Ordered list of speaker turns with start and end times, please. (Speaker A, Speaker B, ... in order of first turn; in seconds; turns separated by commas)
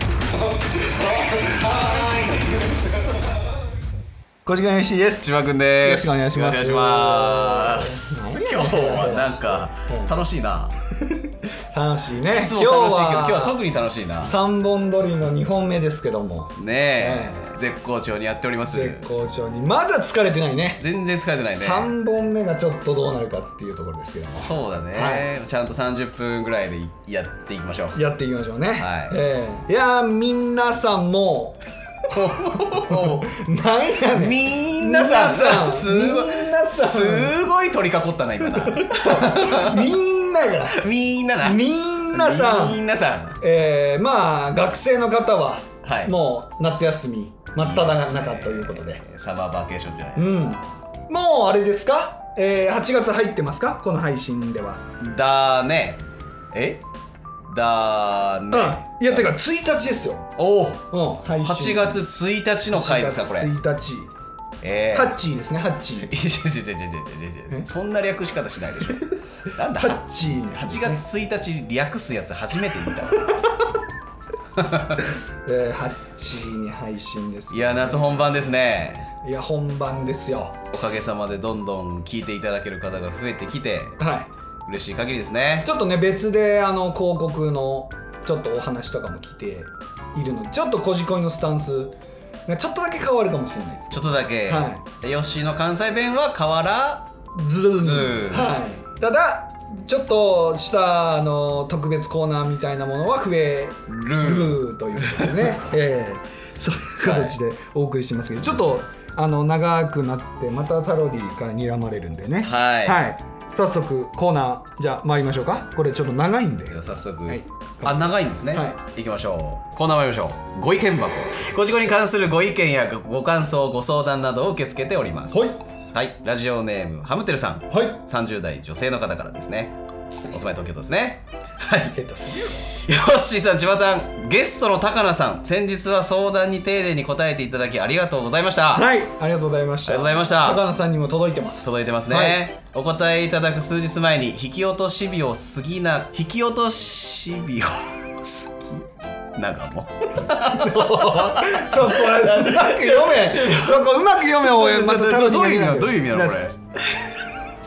Speaker A: 0.8-2.5, Speaker B: 4.5-10.1, Speaker A: 5.2-10.7, Speaker B: 11.1-13.6, Speaker A: 12.3-14.3, Speaker B: 14.2-17.4, Speaker A: 16.6-19.1, Speaker B: 18.7-20.8, Speaker A: 20.8-21.9, Speaker B: 21.5-25.3, Speaker A: 24.2-28.0, Speaker B: 27.9-37.4, Speaker A: 28.8-29.2, Speaker A: 32.1-33.3, Speaker A: 34.1-39.9, Speaker B: 38.5-40.8, Speaker A: 40.7-43.4, Speaker B: 41.4-42.8, Speaker B: 43.4-49.0, Speaker A: 45.8-46.1, Speaker A: 47.6-50.9, Speaker B: 50.1-55.0, Speaker A: 55.0-56.8, Speaker A: 57.5-59.3, Speaker B: 58.5-60.3, Speaker A: 60.4-60.8, Speaker B: 60.9-62.0, Speaker A: 61.4-63.5, Speaker B: 62.7-64.1, Speaker A: 64.6-65.2, Speaker B: 64.9-66.1, Speaker A: 66.0-73.4, Speaker B: 69.8-71.0, Speaker A: 74.5-75.1, Speaker B: 75.5-78.3, Speaker A: 77.5-79.1, Speaker B: 79.2-80.6, Speaker A: 80.7-84.0, Speaker B: 84.0-84.3, Speaker A: 84.7-85.7, Speaker B: 85.7-92.0, Speaker B: 92.5-94.8, Speaker A: 93.9-97.1, Speaker B: 97.3-118.8, Speaker A: 97.8-98.6, Speaker A: 103.9-105.6, Speaker A: 107.0-107.4, Speaker A: 108.4-108.8, Speaker A: 112.4-113.0, Speaker A: 116.7-129.8, Speaker B: 125.3-125.6, Speaker B: 127.7-128.0, Speaker A: 130.3-132.0, Speaker B: 131.9-132.8, Speaker A: 132.8-138.9, Speaker B: 138.7-142.4, Speaker A: 139.9-140.6, Speaker A: 141.6-157.1, Speaker B: 150.4-156.5